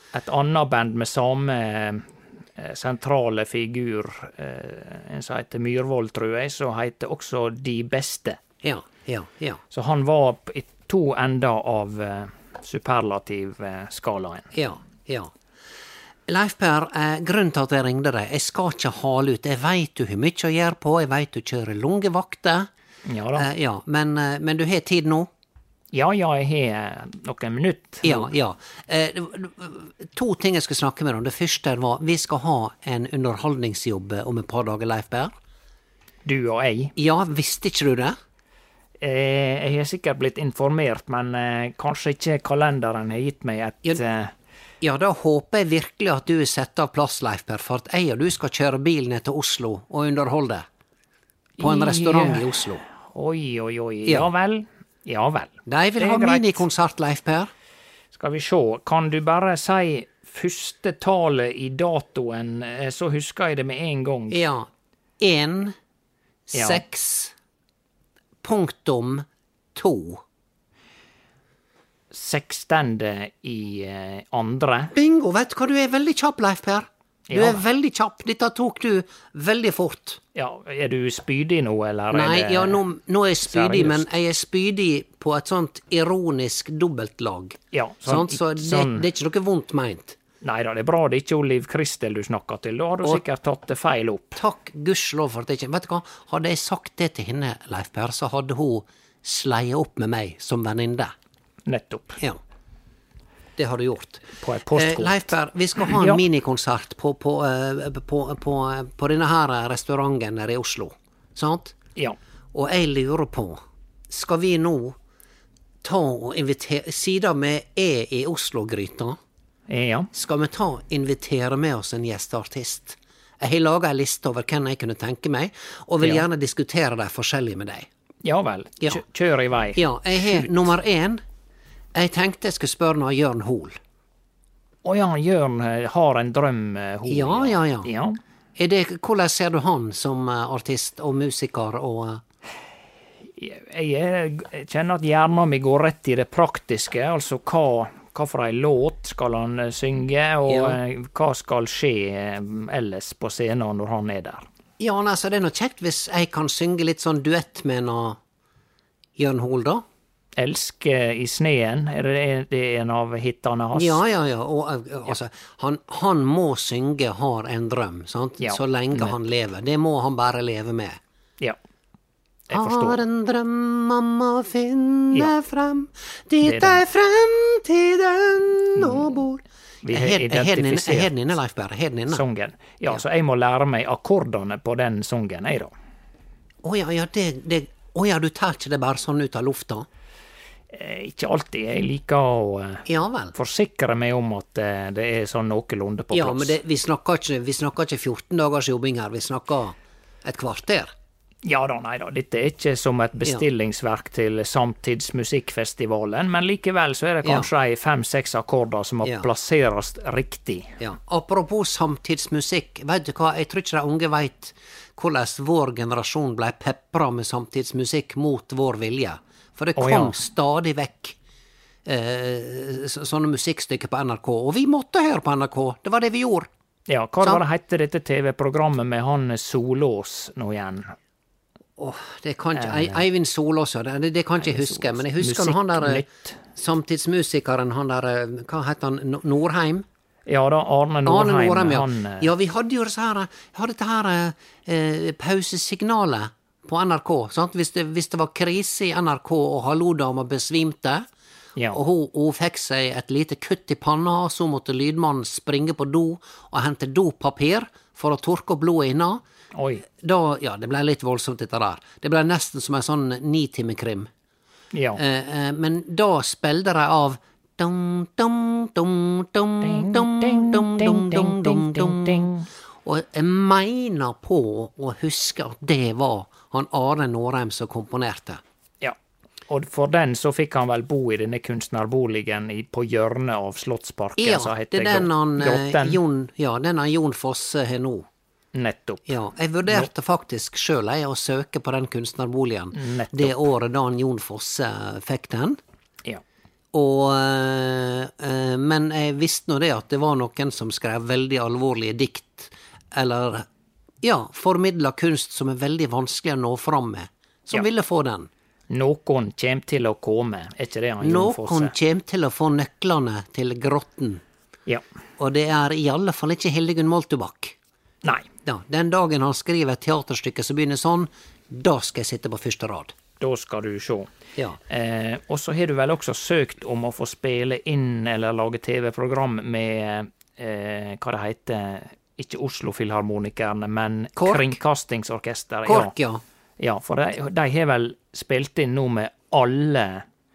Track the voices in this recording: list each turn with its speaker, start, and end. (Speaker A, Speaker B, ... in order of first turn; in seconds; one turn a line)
Speaker A: 0.1-8.4
Speaker B: 8.6-9.6
Speaker A: 9.7-14.5
Speaker B: 14.5-15.3
Speaker B: 16.3-22.7
Speaker A: 23.1-23.5
Speaker B: 23.4-25.3
Speaker A: 25.9-28.3
Speaker B: 28.0-35.3
Speaker A: 36.2-36.9
Speaker B: 37.0-38.2
Speaker A: 39.0-44.3
Speaker B: 44.8-50.7
Speaker A: 51.6-56.7
Speaker B: 51.6-52.9
Speaker B: 55.7-57.5
Speaker A: 58.1-64.4
Speaker B: 64.3-64.7
Speaker B: 65.2-65.8
Speaker B: 66.5-67.3
Speaker A: 66.5-66.8
Speaker B: 68.4-70.2
Speaker A: 72.1-74.9
Speaker B: 74.9-80.2
Speaker A: 77.3-77.6
Speaker A: 80.3-82.8
Speaker B: 82.1-90.2
Speaker A: 83.5-84.1
Speaker A: 87.7-89.1
Speaker A: 90.4-94.4
Speaker B: 94.4-101.1
Speaker A: 101.7-102.2
Speaker B: 103.6-111.8
Speaker A: 104.4-105.3
Speaker A: 105.8-106.2
Speaker B: 112.5-113.6
Speaker B: 114.1-115.0
Speaker B: 115.8-119.2
Speaker A: 119.7-120.1
Speaker B: 120.1-127.9
Speaker A: 126.0-126.3
Speaker A: 128.2-130.5
Speaker B: 129.8-131.2
Speaker B: 131.9-133.8
Speaker A: 134.8-138.2
Speaker B: 137.1-137.9
Speaker B: 138.6-142.2
Speaker A: 143.3-154.5
Speaker B: 150.5-150.8
Speaker B: 154.8-158.2
Speaker B: 159.2-159.8
Speaker A: 160.4-164.0
Speaker B: 163.7-171.0
Speaker A: 168.4-169.2
Speaker A: 172.5-173.0
Speaker B: 172.5-182.2
Speaker A: 176.4-176.8
Speaker A: 178.8-179.1
Speaker A: 179.8-181.2
Speaker A: 182.1-185.7
Speaker B: 186.6-189.9
Speaker A: 190.7-196.6
Speaker B: 192.9-193.3
Speaker B: 196.1-200.9
Speaker A: 201.4-210.8
Speaker B: 210.8-221.2
Speaker A: 219.8-220.2
Speaker B: 221.9-226.5
Speaker A: 226.9-230.9
Speaker B: 231.8-236.0
Speaker A: 232.6-233.0
Speaker A: 234.4-236.4
Speaker B: 236.6-239.8
Speaker A: 240.3-242.3
Speaker B: 241.1-251.1
Speaker B: 251.7-259.2
Speaker A: 259.6-259.9
Speaker B: 260.0-264.1
Speaker A: 264.7-265.0
Speaker B: 265.0-272.3
Speaker A: 269.6-272.5
Speaker B: 272.9-278.4
Speaker A: 279.5-286.0
Speaker B: 284.2-288.1
Speaker A: 288.5-289.1
Speaker B: 289.1-295.6
Speaker A: 292.7-293.5
Speaker B: 296.7-303.5
Speaker B: 304.0-308.3
Speaker A: 308.7-311.8
Speaker B: 311.0-314.2
Speaker B: 315.2-317.6
Speaker A: 318.0-318.3
Speaker B: 318.4-322.9
Speaker A: 323.2-324.1
Speaker A: 324.7-335.9
Speaker B: 334.2-334.6
Speaker B: 335.7-336.2
Speaker A: 336.6-340.1